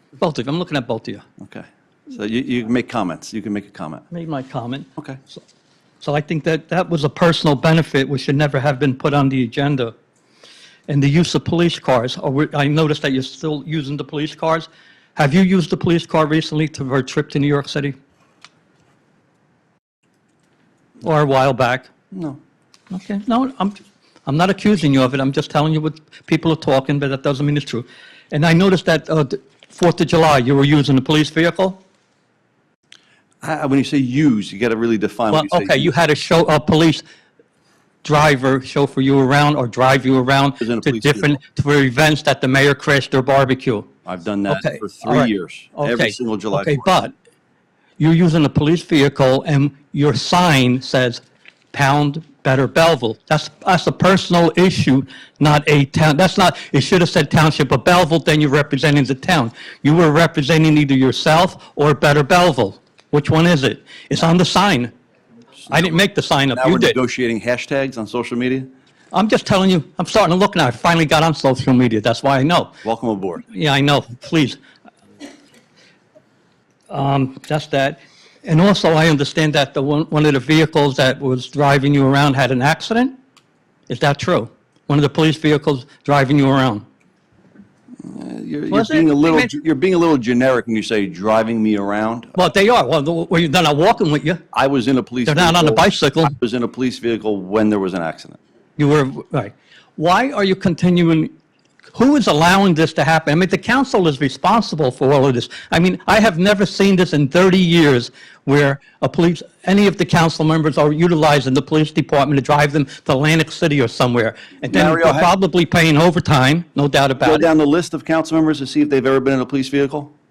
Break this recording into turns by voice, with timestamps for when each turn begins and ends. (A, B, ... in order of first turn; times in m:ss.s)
0:00.2-0:01.2 A
0:01.4-0:04.0 B
0:04.1-0:05.4 A
0:06.0-0:09.9 A
0:10.9-0:17.9 A
0:21.0-0:21.9 A
0:22.1-0:22.4 B
0:22.9-0:31.8 A
0:33.4-0:35.9 B
0:35.3-0:37.0 A
0:38.0-0:43.9 A
0:40.6-0:41.3 B
0:44.0-0:47.0 B
0:44.5-0:47.1 A
0:48.0-1:04.9 A
1:05.7-1:06.0 B
1:05.7-1:07.0 A
1:06.5-1:08.7 B
1:09.1-1:12.7 A
1:12.8-1:13.4 B
1:13.5-1:14.6 A
1:16.9-1:23.1 A
1:23.9-1:26.8 A
1:28.0-1:32.3 B
1:28.7-1:29.5 A
1:32.3-1:34.4 A
1:34.5-1:38.4 B
1:35.3-1:36.3 A
1:38.8-1:41.3 A
1:41.9-1:57.5 A
1:54.7-1:55.3 B
1:57.2-2:00.1 B